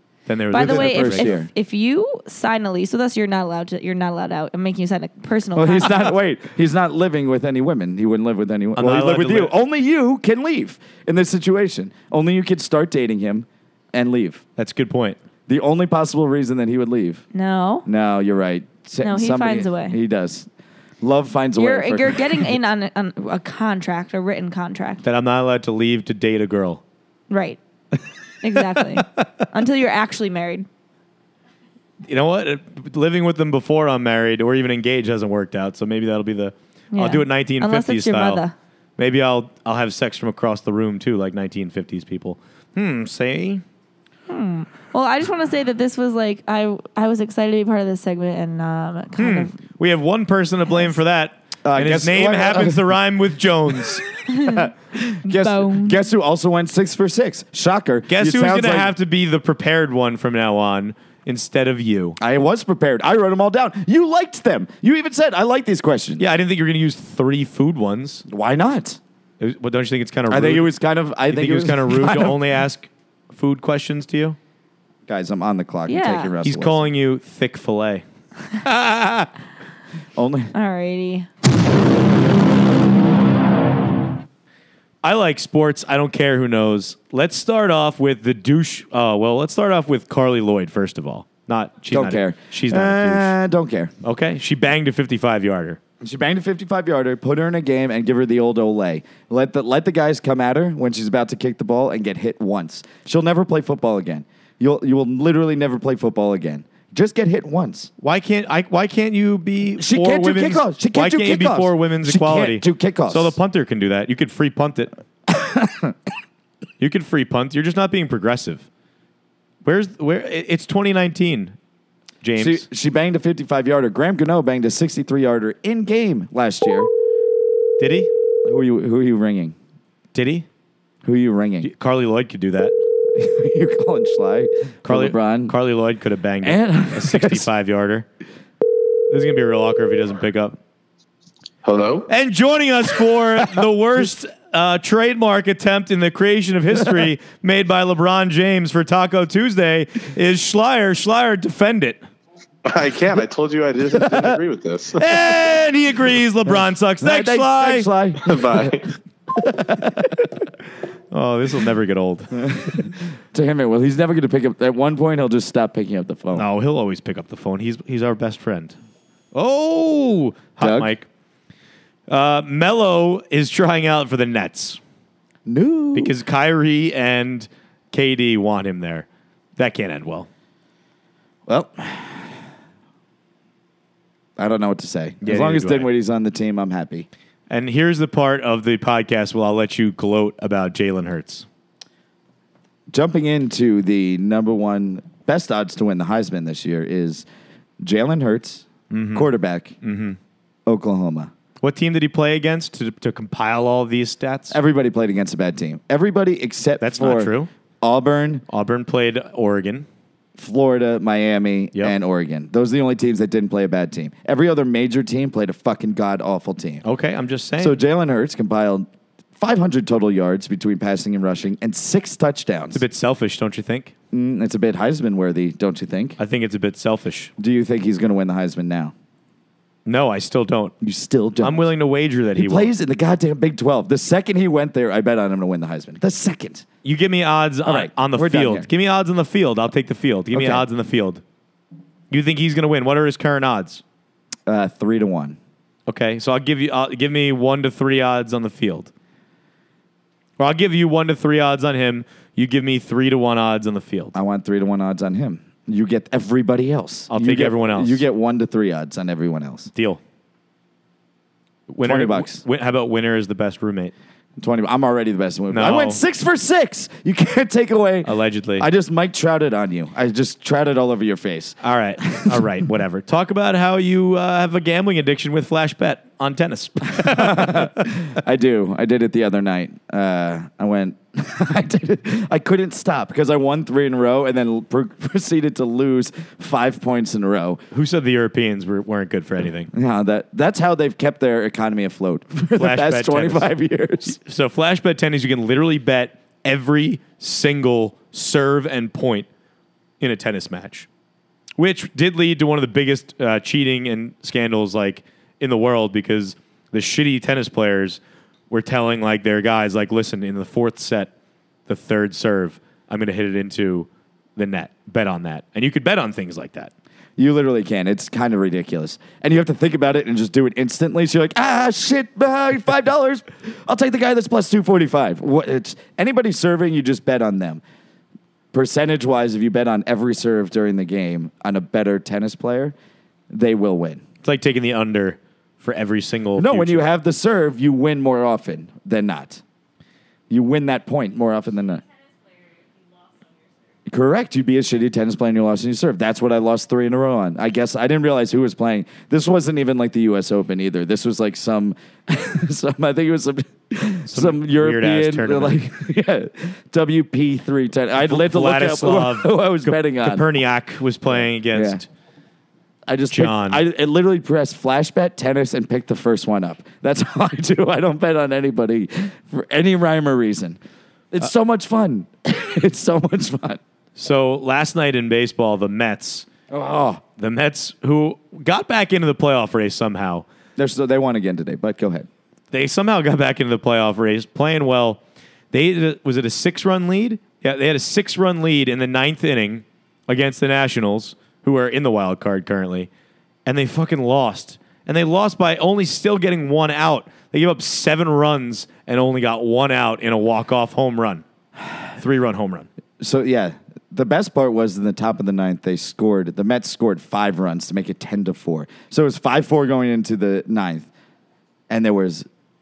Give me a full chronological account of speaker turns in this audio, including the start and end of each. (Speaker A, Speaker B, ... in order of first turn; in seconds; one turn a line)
Speaker A: 0.3-1.3
Speaker B: 0.5-6.1
Speaker C: 0.5-1.5
Speaker C: 5.6-14.4
Speaker A: 8.8-9.6
Speaker A: 14.6-15.2
Speaker C: 15.5-17.2
Speaker B: 17.3-17.9
Speaker C: 17.9-20.5
Speaker B: 19.0-20.0
Speaker C: 21.0-22.5
Speaker B: 21.6-25.0
Speaker A: 25.0-26.8
Speaker B: 27.3-27.6
Speaker B: 28.4-30.7
Speaker A: 32.1-38.4
Speaker B: 36.9-38.5
Speaker A: 39.0-43.6
Speaker B: 44.3-49.6
Speaker A: 49.2-54.0
Speaker C: 51.6-52.9
Speaker B: 54.3-54.7
Speaker C: 54.4-58.9
Speaker B: 55.2-56.0
Speaker A: 58.1-62.2
Speaker C: 62.2-66.3
Speaker A: 66.2-68.2
Speaker C: 68.3-69.0
Speaker A: 69.4-70.7
Speaker C: 70.3-72.4
Speaker A: 71.3-74.4
Speaker C: 75.1-76.9
Speaker B: 75.9-76.3
Speaker A: 76.4-78.0
Speaker A: 78.6-79.3
Speaker C: 80.2-80.5
Speaker B: 80.5-81.3
Speaker A: 85.0-93.3
Speaker C: 91.9-93.9
Speaker A: 94.0-95.8
Speaker C: 96.0-107.9
Speaker A: 108.0-114.9
Speaker C: 109.8-113.4
Speaker C: 115.3-116.0
Speaker A: 116.8-118.7
Speaker A: 119.6-121.5
Speaker A: 122.2-122.7
Speaker C: 122.4-126.9
Speaker A: 127.8-128.1
Speaker C: 128.4-129.6
Speaker A: 130.1-130.5
Speaker C: 131.0-131.7
Speaker A: 131.6-132.8
Speaker C: 133.2-135.6
Speaker A: 134.8-138.1
Speaker C: 136.4-137.5
Speaker A: 139.1-140.6
Speaker D: 141.6-142.1
Speaker A: 142.1-152.0
Speaker D: 152.7-155.2
Speaker A: 155.0-157.9
Speaker C: 157.0-158.8
Speaker D: 158.2-158.9
Speaker C: 159.4-160.3
Speaker A: 161.1-162.6
Speaker C: 162.4-166.5
Speaker A: 166.3-168.8
Speaker A: 169.3-171.1
Speaker C: 170.6-170.9
Speaker A: 172.1-174.8
Speaker C: 175.5-176.1
Speaker A: 175.9-180.3
Speaker C: 181.5-182.4
Speaker C: 184.4-187.1
Speaker A: 185.2-185.9
Speaker A: 187.5-191.5
Speaker C: 192.9-197.3
Speaker C: 197.8-199.8
Speaker A: 198.9-199.3
Speaker A: 199.8-200.2
Speaker C: 200.7-201.3
Speaker A: 201.6-204.6
Speaker C: 204.5-208.4
Speaker A: 206.8-207.5
Speaker A: 208.5-209.9
Speaker C: 210.4-216.8
Speaker A: 216.8-217.8
Speaker C: 217.6-222.8
Speaker A: 222.7-223.9
Speaker C: 224.1-226.2
Speaker A: 226.2-227.3
Speaker C: 227.4-228.9
Speaker A: 229.9-230.8
Speaker C: 230.8-231.7
Speaker A: 231.4-232.7
Speaker C: 232.3-236.7
Speaker A: 236.8-241.2
Speaker C: 237.6-238.7
Speaker C: 240.3-240.7
Speaker A: 242.1-243.8
Speaker C: 244.5-245.4
Speaker A: 245.9-248.9
Speaker A: 250.4-254.1
Speaker C: 254.1-259.7
Speaker A: 257.1-258.0
Speaker A: 259.8-260.0
Speaker A: 261.7-263.9
Speaker C: 261.8-262.4
Speaker C: 264.4-272.5
Speaker A: 265.5-266.0
Speaker A: 268.0-268.7
Speaker A: 271.6-277.7
Speaker C: 276.9-287.6
Speaker A: 287.7-289.7
Speaker C: 289.7-294.2
Speaker A: 292.6-293.5
Speaker A: 294.1-299.3
Speaker A: 300.0-300.9
Speaker A: 301.6-308.0
Speaker A: 308.5-311.1
Speaker A: 311.7-316.7
Speaker C: 317.2-327.6
Speaker C: 328.5-332.8
Speaker C: 333.3-334.0
Speaker A: 334.2-336.9
Speaker C: 336.4-339.4
Speaker C: 340.3-341.8
Speaker C: 343.9-360.2
Speaker A: 354.1-355.6
Speaker A: 358.0-361.9
Speaker C: 361.1-361.8
Speaker C: 362.9-370.6
Speaker A: 363.1-363.6
Speaker C: 371.1-373.6
Speaker A: 374.0-376.3
Speaker C: 376.5-377.0
Speaker A: 377.2-380.3
Speaker C: 380.6-382.1
Speaker A: 382.5-385.0
Speaker A: 385.5-392.9
Speaker A: 393.5-401.2
Speaker A: 401.9-402.7
Speaker C: 403.0-410.9
Speaker C: 411.7-412.3